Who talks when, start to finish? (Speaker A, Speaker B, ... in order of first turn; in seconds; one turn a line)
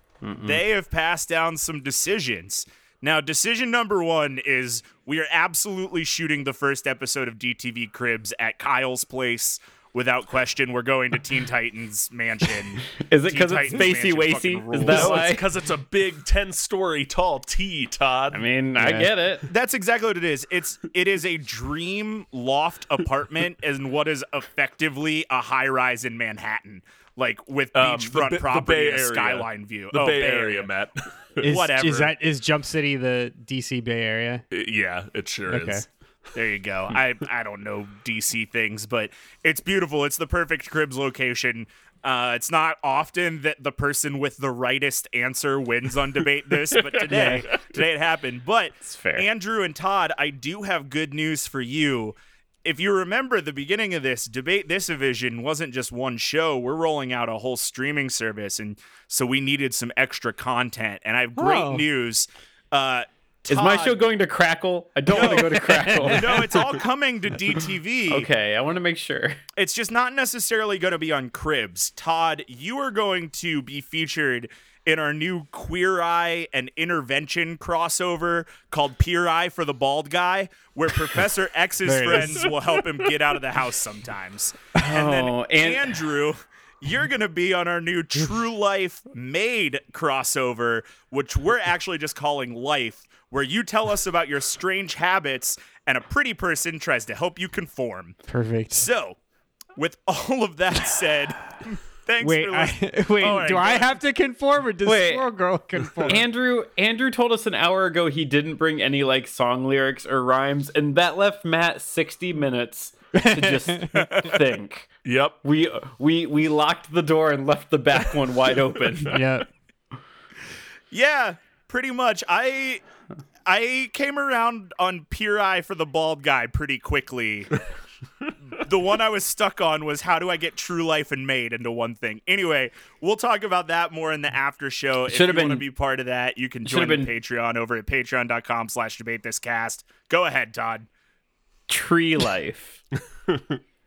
Speaker A: 0.2-0.6
Speaker B: 0.4-15.3
Speaker A: 13.0-15.5
Speaker C: 14.9-18.4
Speaker A: 18.3-19.5
Speaker D: 18.8-19.1
Speaker B: 19.5-30.7
Speaker C: 27.7-31.6
Speaker B: 31.4-32.1
Speaker D: 31.4-34.5
Speaker C: 34.5-35.9
Speaker D: 35.5-35.9
Speaker B: 36.3-64.0
Speaker A: 48.9-49.3
Speaker D: 61.4-61.9
Speaker A: 63.5-66.7
Speaker B: 65.1-68.3
Speaker A: 68.1-69.4
Speaker B: 69.6-98.2
Speaker D: 81.9-82.5
Speaker A: 84.8-86.0
Speaker D: 98.3-98.9
Speaker B: 98.7-99.2
Speaker B: 99.8-103.9
Speaker D: 102.2-106.2
Speaker A: 104.8-105.3
Speaker A: 106.1-119.2
Speaker D: 113.2-114.1
Speaker C: 115.0-115.4
Speaker D: 119.1-119.5
Speaker B: 120.9-122.8
Speaker B: 123.5-127.5
Speaker B: 128.6-140.9
Speaker A: 135.1-135.7
Speaker A: 136.7-137.1
Speaker A: 141.7-142.8